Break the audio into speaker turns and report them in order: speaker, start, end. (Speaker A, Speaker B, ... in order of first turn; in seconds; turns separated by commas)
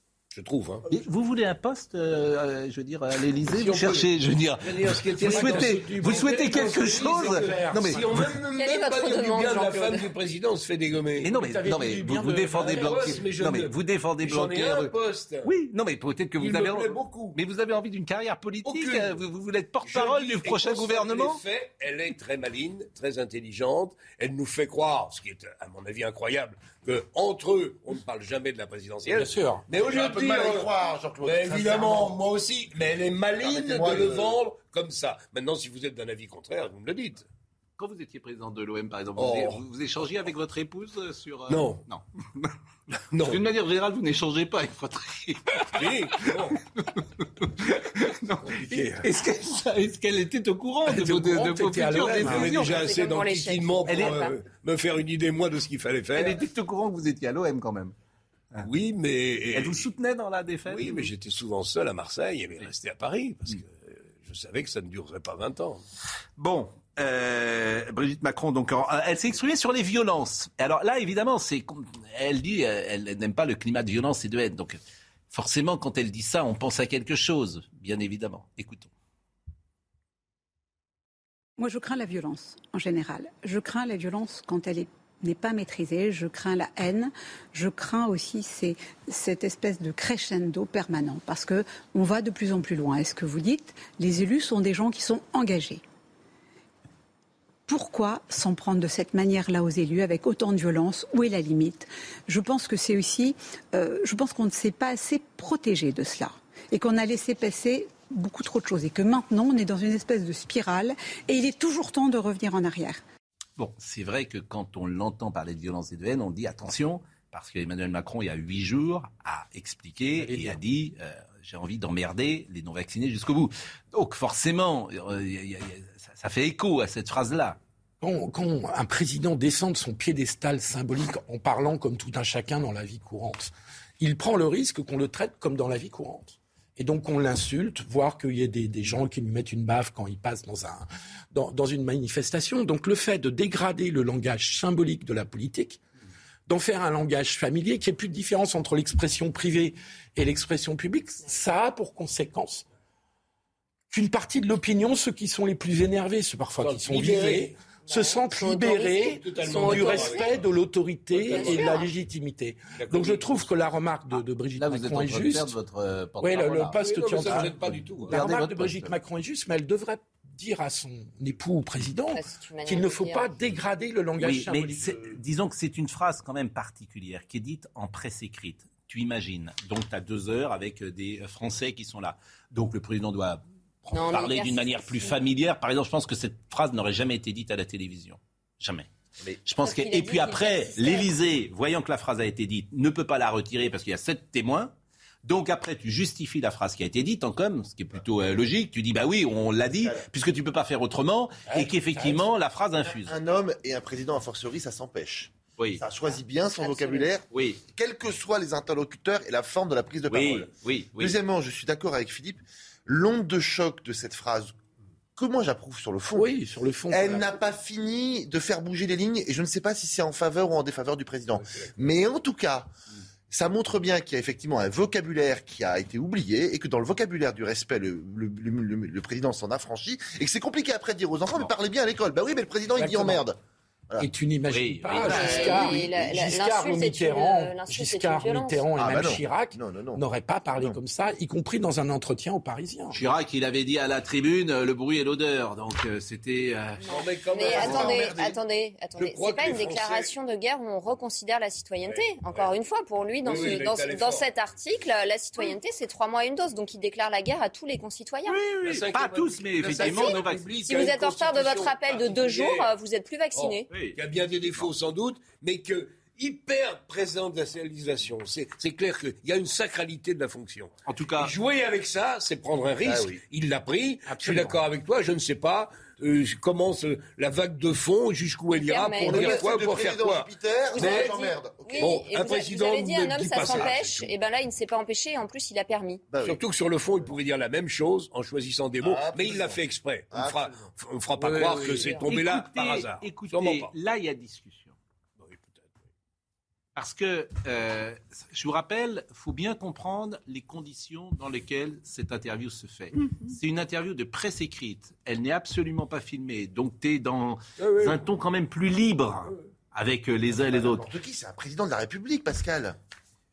Speaker A: 0.3-0.9, Speaker B: 0.9-8.3, Speaker A: 3.4-4.1, Speaker A: 4.6-11.3, Speaker C: 5.2-8.2, Speaker D: 8.6-10.1, Speaker B: 11.2-14.9, Speaker C: 11.3-13.1, Speaker A: 12.6-15.5, Speaker B: 15.4-21.4, Speaker A: 16.4-17.4, Speaker A: 18.6-19.2, Speaker A: 19.8-30.7, Speaker C: 29.1-29.6, Speaker E: 29.8-32.1, Speaker A: 31.2-37.3, Speaker E: 33.4-34.4, Speaker B: 37.8-42.5, Speaker A: 39.2-39.6, Speaker A: 41.5-41.8, Speaker A: 43.1-43.4, Speaker B: 43.2-52.9, Speaker A: 45.8-46.6, Speaker A: 48.4-49.0, Speaker C: 48.7-49.0, Speaker C: 50.9-52.6, Speaker A: 52.1-56.4, Speaker D: 52.3-54.4, Speaker B: 53.9-54.2, Speaker B: 56.1-57.9, Speaker A: 58.6-59.9, Speaker B: 59.5-61.1, Speaker A: 60.7-65.8, Speaker B: 66.4-74.8, Speaker B: 75.3-78.9, Speaker F: 81.6-95.8, Speaker F: 97.7-113.0, Speaker B: 113.6-127.6, Speaker C: 120.2-120.6, Speaker C: 128.0-145.8, Speaker C: 146.5-152.7, Speaker C: 153.9-165.5, Speaker A: 156.6-157.5, Speaker D: 157.9-158.2, Speaker A: 158.3-160.3, Speaker D: 159.7-160.2, Speaker A: 161.1-161.8, Speaker D: 161.4-161.9, Speaker A: 162.8-163.5, Speaker B: 164.6-168.9, Speaker C: 166.2-175.2, Speaker A: 166.8-168.2, Speaker D: 172.1-173.3, Speaker B: 174.2-194.7, Speaker D: 183.9-185.2, Speaker D: 189.6-191.2, Speaker B: 195.2-203.2, Speaker C: 201.5-202.2, Speaker E: 203.0-214.6, Speaker B: 205.6-205.8, Speaker D: 206.6-207.1, Speaker B: 207.3-207.6, Speaker B: 210.1-211.1, Speaker E: 215.2-216.3, Speaker C: 216.2-217.4, Speaker E: 216.9-222.7, Speaker E: 223.3-233.4, Speaker C: 232.8-233.2, Speaker C: 234.0-243.0, Speaker B: 234.5-235.5, Speaker E: 235.0-236.0, Speaker D: 235.1-238.7, Speaker E: 238.8-240.0, Speaker B: 242.9-247.0, Speaker A: 246.9-248.1, Speaker D: 247.0-258.4, Speaker C: 247.4-248.3, Speaker E: 247.5-248.2, Speaker A: 249.0-250.1, Speaker A: 251.8-252.5, Speaker A: 253.2-254.3, Speaker B: 258.3-260.8, Speaker A: 258.6-262.7, Speaker D: 259.8-263.7, Speaker A: 263.3-281.2, Speaker B: 263.7-264.0, Speaker B: 270.9-271.3, Speaker E: 272.8-273.2, Speaker C: 274.1-274.6, Speaker D: 278.5-279.5, Speaker E: 279.0-282.0, Speaker D: 280.7-286.1, Speaker A: 281.8-284.1, Speaker E: 286.1-286.4, Speaker A: 286.2-293.7, Speaker E: 288.8-289.6, Speaker E: 290.1-290.5, Speaker C: 291.2-292.0, Speaker D: 291.8-292.1, Speaker B: 292.1-294.8, Speaker A: 295.2-295.7, Speaker B: 296.8-310.9, Speaker A: 307.6-308.0, Speaker E: 310.5-312.8